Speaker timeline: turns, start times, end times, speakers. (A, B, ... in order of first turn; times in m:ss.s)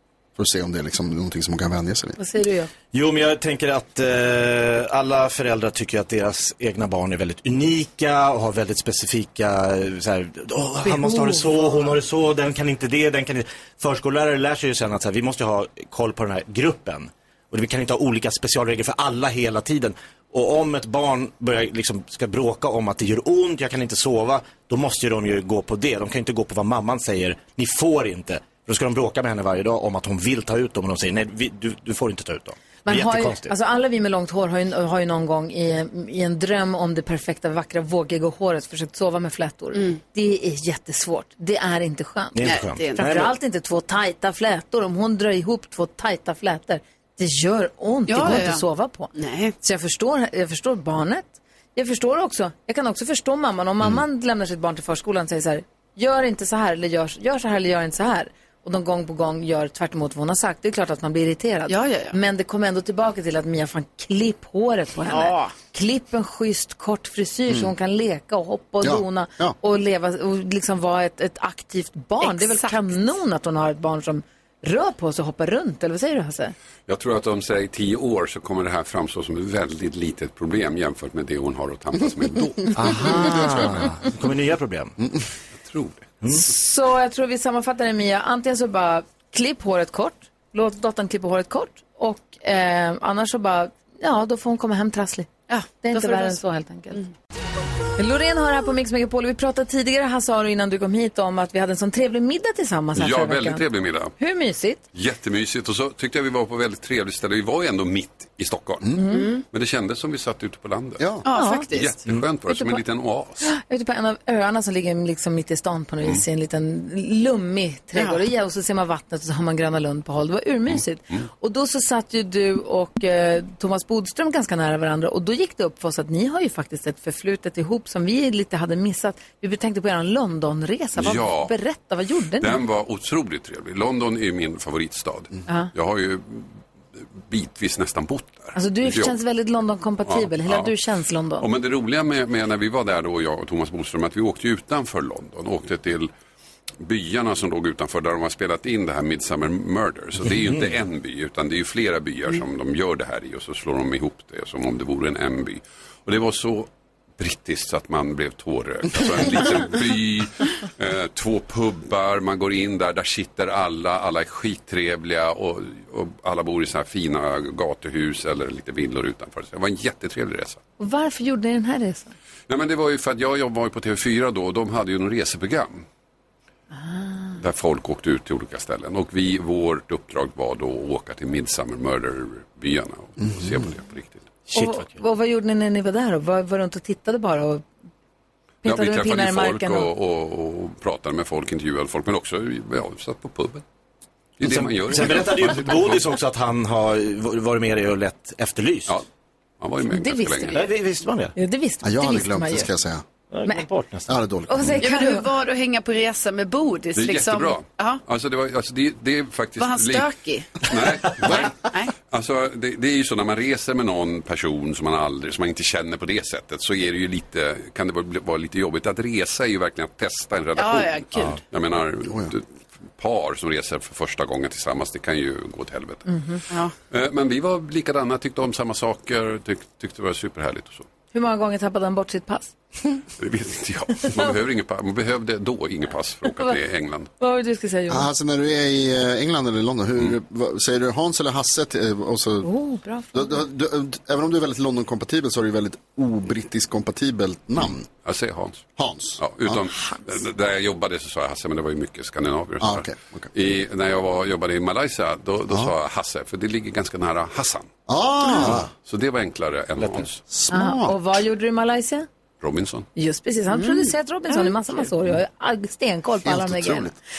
0:00.4-0:02.2 A
0:02.2-0:02.7 B
0:02.9-0:33.5 C
0:10.8-0:11.9 B
0:32.8-1:16.6 B
0:42.3-0:43.3 C
0:42.4-0:43.1 D
0:48.1-0:49.6 D
1:01.7-1:02.2 D
1:05.1-1:05.6 D
1:08.8-1:09.6 A
1:12.2-1:13.1 D
1:16.9-1:23.1 E
1:22.7-1:25.0 C
1:25.6-1:26.1 E
1:26.2-1:26.5 C
1:26.3-1:35.3 B
1:35.5-1:36.4 D
1:35.8-1:37.0 B
1:38.0-1:43.6 B
1:43.0-1:44.1 E
1:44.2-1:44.8 B
1:44.9-1:51.2 E
1:49.0-1:49.3 B
1:49.1-1:49.4 D
1:51.2-1:52.0 D
1:51.3-1:51.7 B
1:51.7-1:53.5 E
1:52.5-1:52.8 B
1:53.4-2:12.6 B
1:58.0-1:58.2 D
2:11.0-2:11.6 E
2:12.4-2:19.2 E
2:18.6-2:21.5 B
2:20.1-2:20.7 E
2:21.4-2:26.1 E
2:26.8-2:50.6 E
2:30.3-2:30.6 C
2:50.8-2:52.1 B
2:52.5-2:55.8 E
2:56.7-2:57.4 B
2:57.4-3:04.4 E
3:04.5-3:04.9 C
3:04.5-3:07.6 B
3:08.6-3:09.9 B
3:08.6-3:13.6 E
3:14.4-3:16.2 E
3:14.4-3:19.0 C
3:19.6-3:20.6 E
3:19.9-3:20.6 B
3:20.5-3:21.3 C
3:21.4-3:22.7 B
3:21.8-3:23.1 A
3:23.3-3:24.2 C
3:24.1-3:24.8 A
3:24.5-3:25.2 B
3:24.8-3:28.0 D
3:27.0-3:30.1 E
3:29.6-3:30.7 D
3:30.6-3:46.2 E
3:40.6-3:41.4 D
3:46.1-3:46.4 B
3:46.9-3:50.9 E
3:51.1-3:52.5 B
3:53.2-3:57.1 E
3:57.2-3:58.1 B
3:57.9-4:02.5 A
4:02.4-4:03.4 B
4:03.1-4:07.9 A
4:07.6-4:08.7 E
4:08.8-4:09.6 A
4:09.2-4:17.7 E
4:12.6-4:13.3 A
4:17.9-4:18.7 A
4:18.4-4:20.2 E
4:20.3-4:21.0 A
4:20.5-4:22.1 B
4:22.4-4:22.9 E
4:23.0-4:26.9 B
4:23.5-4:24.5 D
4:26.2-4:26.9 A